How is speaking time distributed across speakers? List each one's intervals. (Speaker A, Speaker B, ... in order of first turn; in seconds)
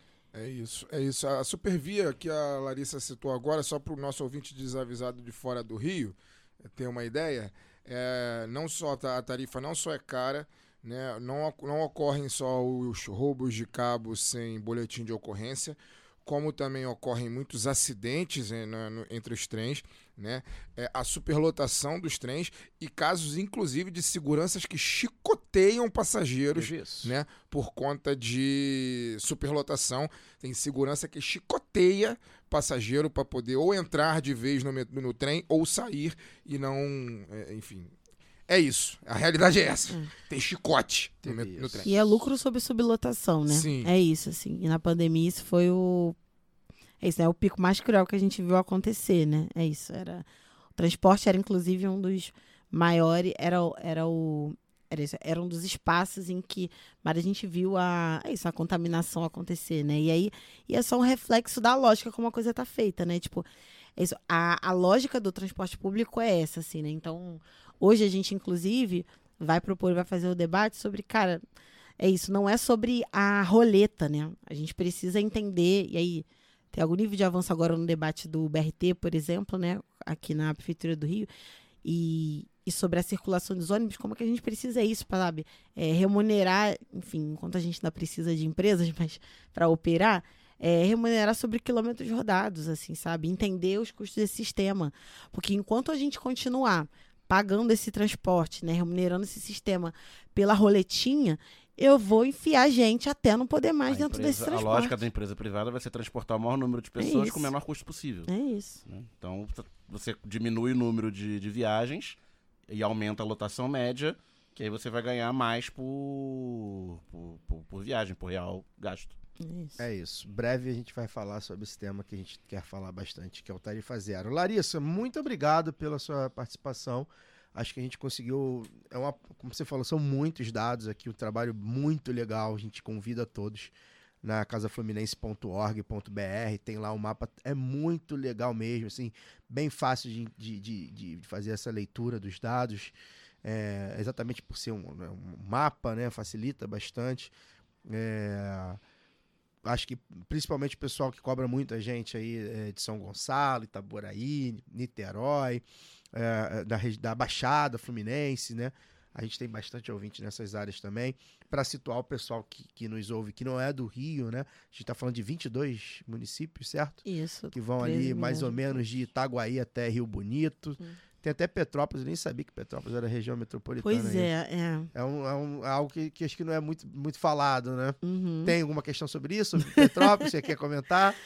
Speaker A: 0.3-37.9, 38.5-41.9, 43.5-43.9
Speaker B: 26.6-27.1, 41.2-41.9, 119.8-147.3, 147.9-148.8, 149.6-167.0, 167.5-174.3, 174.9-181.2
Speaker C: 41.8-46.2, 47.0-71.4, 72.0-81.3, 81.8-105.0, 107.0-107.5, 108.3-108.8, 119.4-119.8, 167.1-168.8, 173.8-174.9, 178.0-178.6, 179.6-180.3
Speaker D: 103.9-108.3, 108.9-112.2, 112.7-119.2